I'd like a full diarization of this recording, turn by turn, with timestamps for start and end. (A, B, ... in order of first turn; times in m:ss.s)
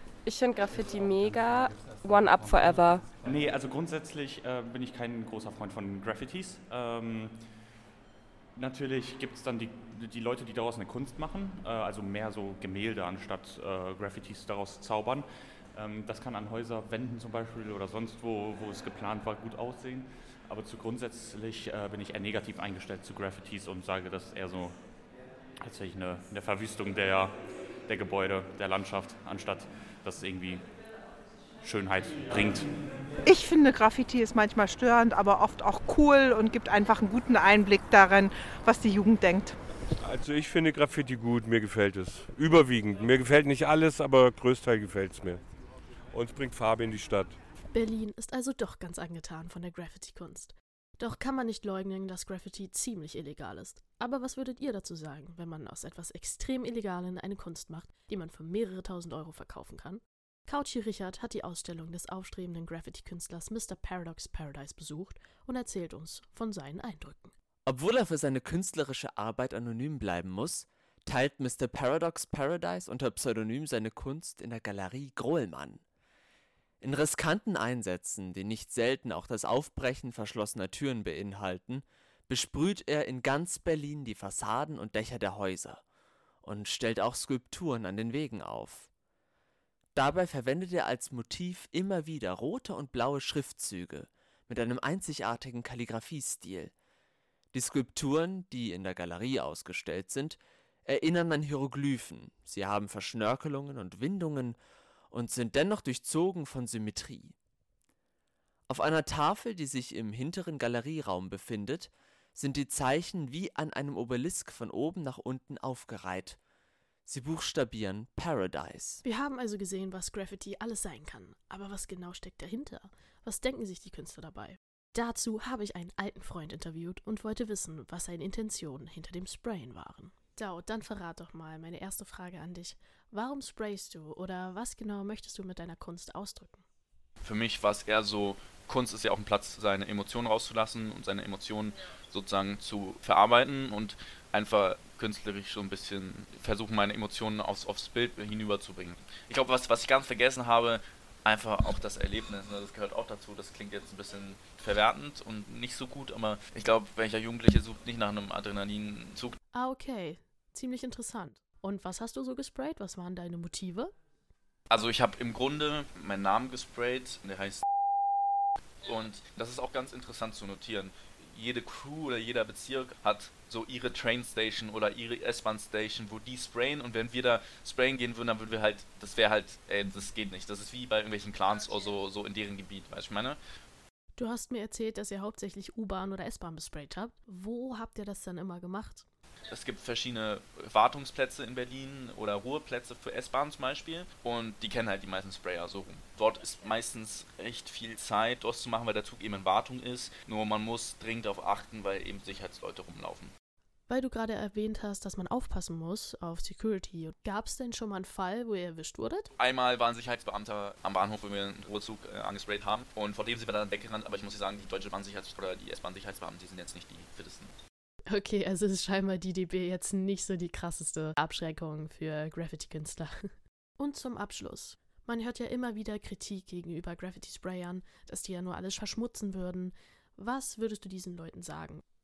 0:00.2-0:03.1 A
0:03.2-0:07.4 B
0:08.6-0:24.9 B
0:25.6-0:30.8 B
0:31.6-0:32.8 B
0:33.2-0:39.6 C
0:40.0-0:45.4 D
0:46.1-0:47.4 D
0:47.7-1:07.3 E
1:07.7-1:15.8 F
1:16.8-1:25.8 F
1:26.4-1:28.9 F
1:30.0-1:36.7 F
1:37.5-1:44.6 F
1:45.1-1:47.4 F
1:48.7-1:56.4 F
1:57.1-1:59.0 F
1:59.0-2:16.6 E
2:17.2-2:39.4 G
2:39.5-2:43.9 E
2:44.7-2:47.6 G
2:48.8-3:03.4 G
3:04.2-3:09.1 E
3:09.5-3:23.3 G
3:23.9-3:29.3 E
3:29.4-3:37.5 G
3:38.1-3:51.8 E